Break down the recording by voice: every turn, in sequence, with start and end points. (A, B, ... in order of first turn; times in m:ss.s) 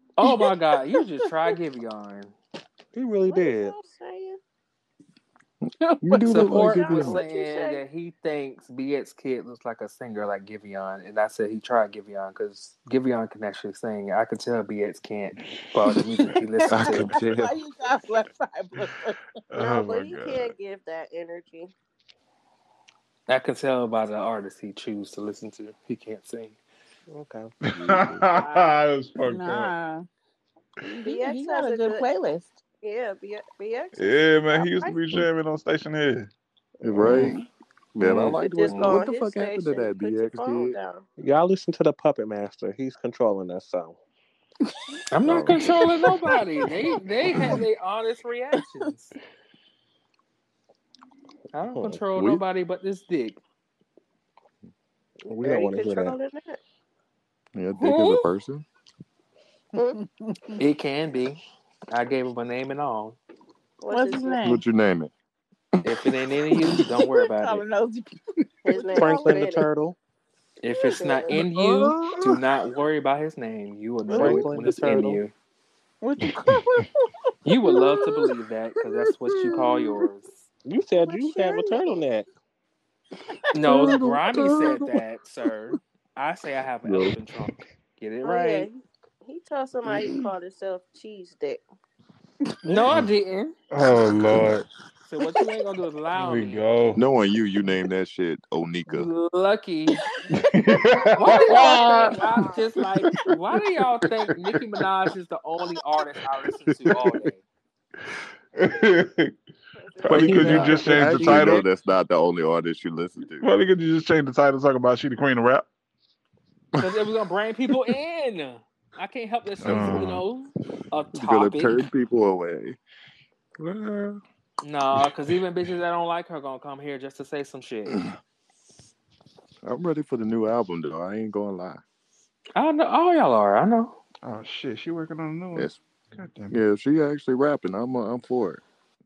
0:00.2-0:02.3 A
0:02.9-0:03.8 B
0:03.3-0:04.4 C
0:05.8-0:17.1 A
0:06.0-0:07.2 D
0:06.2-0:07.8 C
0:16.7-0:17.6 D
0:16.8-0:19.2 E
0:19.5-0:20.6 F
0:19.6-0:21.7 C
0:23.3-0:26.6 A
0:27.1-0:28.1 B
0:27.7-0:29.7 F
0:28.4-0:28.8 A
0:29.2-0:30.1 E
0:30.8-0:32.5 E
0:31.0-0:32.1 C
0:32.8-0:35.0 C
0:34.0-0:36.3 F
0:36.8-0:37.4 D
0:37.1-0:37.4 E
0:38.0-0:40.8 D
0:38.0-0:39.0 A
0:38.2-0:41.0 C
0:41.2-0:44.0 B
0:45.1-0:49.2 A
0:45.3-0:45.7 B
0:51.5-0:53.4 A
0:51.7-0:52.0 B
0:52.1-0:52.4 D
0:55.3-0:56.2 B
0:55.4-0:56.6 C
0:57.6-0:58.6 D
1:00.6-1:03.2 A
1:03.8-1:04.4 C
1:03.9-1:04.6 E
1:04.4-1:05.1 D
1:05.8-1:07.7 A
1:07.0-1:08.1 E
1:08.6-1:09.7 C
1:08.7-1:09.2 E
1:08.9-1:10.0 B
1:10.6-1:15.3 A
1:10.9-1:11.4 C
1:11.6-1:12.1 D
1:14.1-1:15.2 B
1:14.1-1:14.5 D
1:16.0-1:17.0 E
1:17.4-1:20.4 A
1:20.7-1:22.3 B
1:21.1-1:21.9 E
1:23.5-1:28.7 A
1:23.6-1:24.9 D
1:26.8-1:27.2 D
1:28.2-1:31.6 C
1:32.6-1:33.5 A
1:33.7-1:34.7 F
1:35.1-1:36.7 A
1:36.2-1:37.0 F
1:37.0-1:39.1 D
1:38.9-1:40.0 A
1:40.3-1:43.1 F
1:41.1-1:47.4 A
1:41.2-1:42.7 C
1:46.8-1:47.2 D
1:48.6-1:49.3 F
1:49.8-1:50.9 C
1:50.0-1:53.5 D
1:50.0-1:51.6 F
1:50.2-1:51.6 B
1:53.4-1:55.7 F
1:56.8-2:01.8 A
1:59.6-2:00.2 D
1:59.6-2:00.2 F
2:01.1-2:02.8 D
2:03.6-2:04.2 D
2:04.6-2:08.1 A
2:09.6-2:11.8 D
2:12.6-2:14.0 A
2:14.2-2:16.6 F
2:16.5-2:18.6 D